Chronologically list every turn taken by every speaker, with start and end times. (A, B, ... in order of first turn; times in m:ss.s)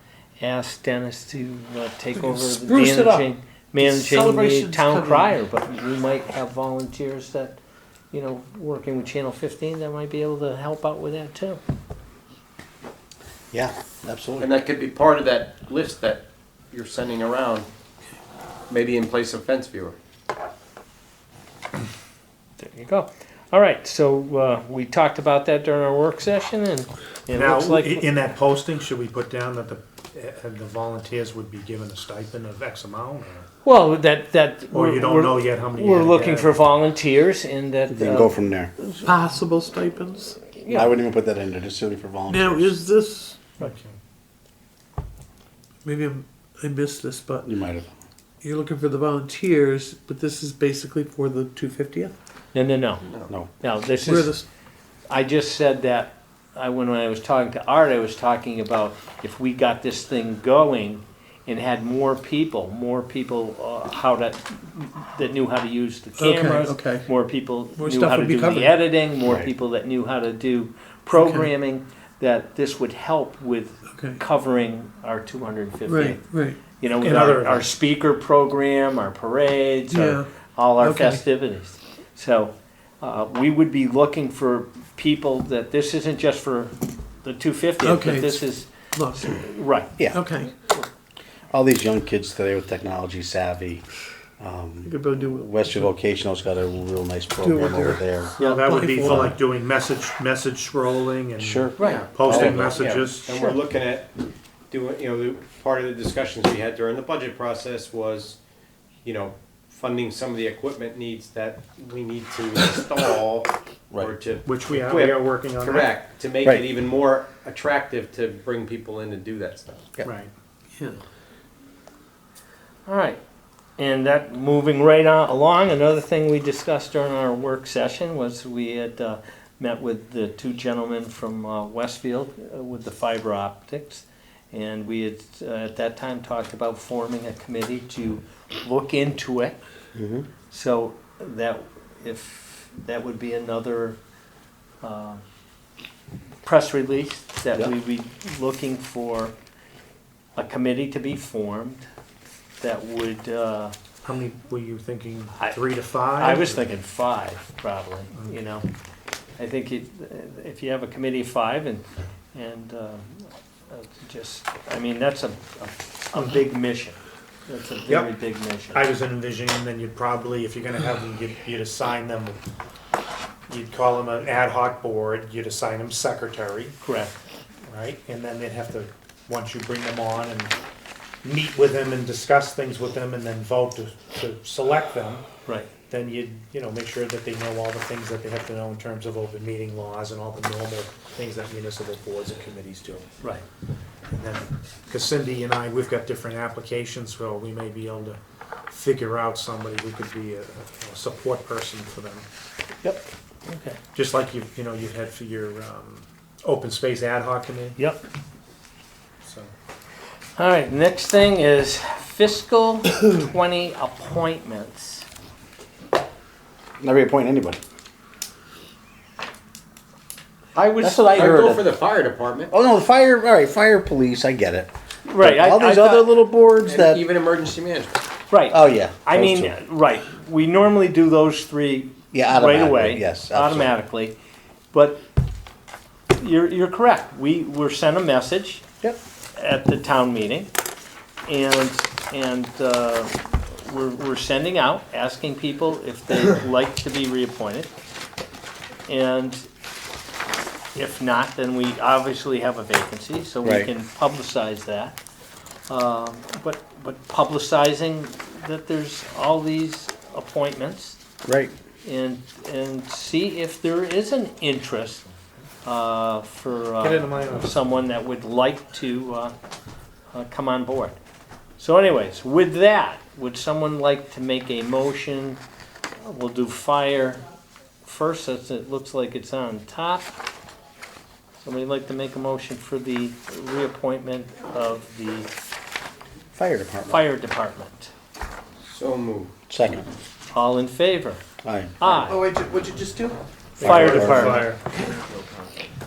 0:00.4-0:07.6 A
0:02.1-0:05.4 B
0:08.1-0:11.6 A
0:13.5-0:14.5 C
0:14.4-0:17.7 D
0:18.7-0:20.0 D
0:22.6-0:28.1 A
0:27.3-0:33.5 E
0:33.6-0:38.3 A
0:34.7-0:36.6 E
0:37.9-0:38.7 C
0:38.8-0:40.5 B
0:40.6-0:40.9 A
0:40.7-0:42.8 C
0:42.3-0:43.5 B
0:43.6-0:43.9 E
0:45.8-0:47.5 B
0:47.4-0:47.9 C
0:48.4-0:52.1 B
0:52.5-0:53.1 A
0:53.6-0:54.4 A
0:54.0-0:54.4 B
0:55.1-1:16.2 A
1:06.2-1:07.1 B
1:07.8-1:08.8 B
1:09.2-1:09.5 C
1:11.1-1:11.5 B
1:13.9-1:14.2 B
1:15.8-1:16.6 B
1:16.8-1:29.9 A
1:17.0-1:17.7 E
1:19.9-1:21.2 B
1:27.8-1:30.5 B
1:31.5-1:33.8 C
1:34.4-1:38.3 C
1:34.8-1:35.9 B
1:37.4-1:39.3 B
1:38.4-1:38.6 A
1:38.4-1:43.3 E
1:41.4-1:42.8 C
1:41.8-1:42.1 A
1:41.8-1:44.1 D
1:43.3-1:43.6 A
1:44.7-1:48.4 D
1:49.0-1:59.8 D
1:54.4-1:55.9 E
2:00.0-2:00.3 E
2:00.7-2:01.0 B
2:02.8-2:03.2 A
2:03.8-2:19.5 A
2:19.9-2:20.3 C
2:20.5-2:24.0 A
2:24.8-2:25.2 A
2:26.4-2:29.3 A
2:30.4-2:31.9 A
2:32.6-2:33.7 A
2:34.0-2:36.6 E
2:36.2-2:38.7 A
2:39.4-2:48.8 A
2:47.9-2:48.1 E
2:48.7-2:52.4 E
2:53.5-2:56.7 E
2:56.8-2:57.2 A
2:57.6-3:00.6 E
3:01.2-3:05.2 E
3:05.9-3:13.0 E
3:14.1-3:18.2 E
3:18.7-3:22.2 E
3:23.5-3:23.8 A
3:23.9-3:27.8 E
3:27.8-3:28.0 A
3:29.2-3:29.5 E
3:30.4-3:35.1 A
3:36.8-3:37.6 C
3:40.5-3:42.5 D
3:40.8-3:41.8 C
3:42.5-3:47.0 C
3:45.0-3:46.2 A
3:46.6-3:48.0 D
3:48.3-3:54.2 A
3:48.5-3:49.5 C
3:52.1-3:53.7 C
3:54.7-3:55.0 A
3:56.1-3:58.6 A
3:59.3-4:00.5 A
4:01.2-4:07.7 A
4:08.9-4:09.5 A
4:10.7-4:15.0 A
4:13.4-4:13.7 C
4:15.7-4:21.0 A
4:21.2-4:21.5 C
4:21.8-4:25.1 A
4:25.6-4:29.3 A
4:26.8-4:27.5 E
4:30.1-4:31.0 A
4:31.6-4:35.4 A
4:36.0-4:37.2 A
4:37.8-4:40.1 A
4:41.4-4:45.3 A
4:46.4-4:47.0 C
4:46.8-4:47.9 A
4:48.7-4:49.3 D
4:49.5-4:49.9 C
4:50.3-4:51.2 A
4:51.4-4:51.7 C
4:51.8-4:52.2 A
4:51.8-4:53.2 D
4:53.6-4:54.4 C
4:53.6-4:54.5 A
4:53.6-4:54.6 E
4:54.8-4:55.2 D